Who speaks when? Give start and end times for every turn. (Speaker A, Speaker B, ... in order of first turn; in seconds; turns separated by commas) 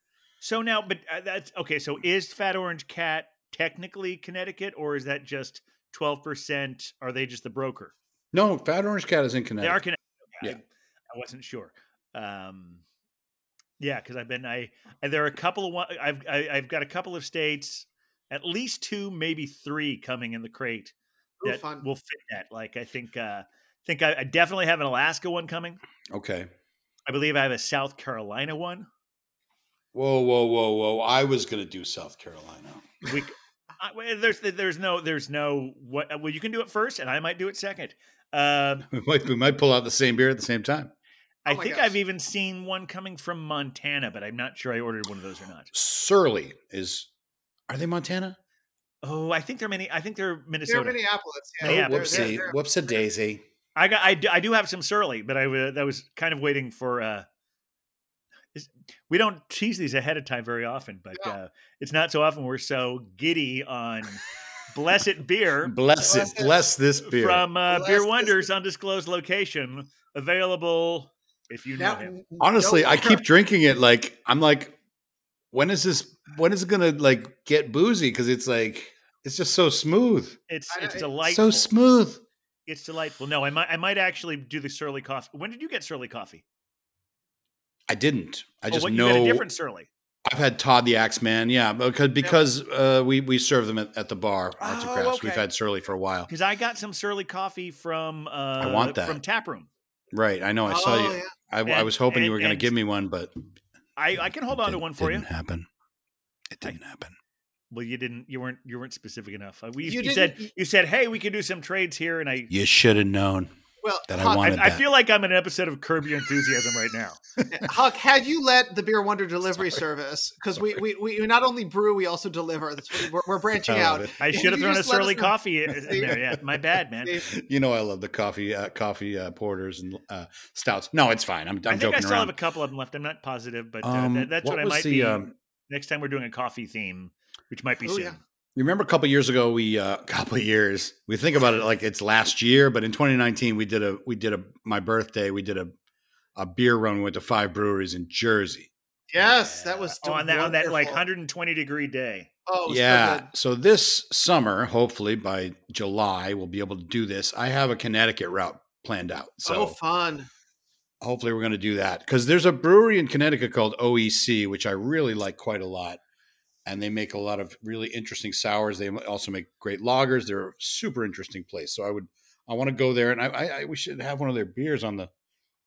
Speaker A: 0.4-7.9, Speaker B: 8.3-9.8, Speaker A: 9.6-12.8, Speaker A: 13.8-25.8, Speaker C: 21.4-21.9, Speaker B: 26.1-26.5, Speaker A: 27.1-28.9, Speaker B: 29.9-33.0, Speaker A: 33.0-38.9, Speaker B: 38.9-40.9, Speaker A: 41.5-45.7, Speaker C: 41.5-42.0, Speaker B: 45.7-47.1, Speaker B: 47.7-48.4, Speaker A: 49.0-51.0, Speaker C: 50.7-52.6, Speaker A: 51.6-52.4, Speaker B: 51.6-53.4, Speaker A: 53.8-57.3, Speaker A: 58.5-65.7, Speaker B: 65.7-67.5, Speaker C: 66.0-66.6, Speaker A: 67.1-72.2, Speaker C: 67.7-68.4, Speaker C: 71.8-73.2, Speaker B: 72.4-74.8, Speaker B: 75.5-80.4, Speaker A: 80.5-81.7, Speaker C: 80.7-81.1, Speaker B: 81.2-82.2, Speaker A: 82.7-86.4, Speaker B: 87.9-89.5, Speaker A: 88.7-89.9, Speaker B: 90.3-96.3, Speaker A: 94.6-95.5, Speaker A: 96.3-99.7, Speaker B: 98.6-99.2, Speaker B: 100.1-103.3, Speaker C: 100.7-101.3, Speaker A: 101.7-102.7, Speaker A: 104.0-105.3, Speaker B: 104.5-105.7, Speaker B: 106.5-107.2, Speaker A: 107.7-112.5, Speaker C: 109.8-110.5, Speaker B: 112.5-113.5, Speaker C: 113.8-114.6, Speaker B: 114.1-114.8, Speaker A: 114.4-117.2, Speaker B: 117.4-117.7, Speaker C: 117.5-125.3, Speaker B: 123.7-124.1, Speaker A: 124.2-127.2, Speaker C: 125.9-126.2, Speaker C: 127.0-127.3, Speaker B: 127.3-132.3, Speaker A: 131.7-138.2, Speaker B: 133.8-135.3, Speaker C: 137.8-138.2, Speaker B: 138.6-145.7, Speaker B: 146.4-148.7, Speaker C: 149.1-151.0, Speaker A: 150.0-152.3, Speaker C: 152.5-153.3, Speaker B: 152.7-159.8, Speaker C: 159.5-160.3, Speaker B: 161.0-166.0, Speaker B: 166.7-175.1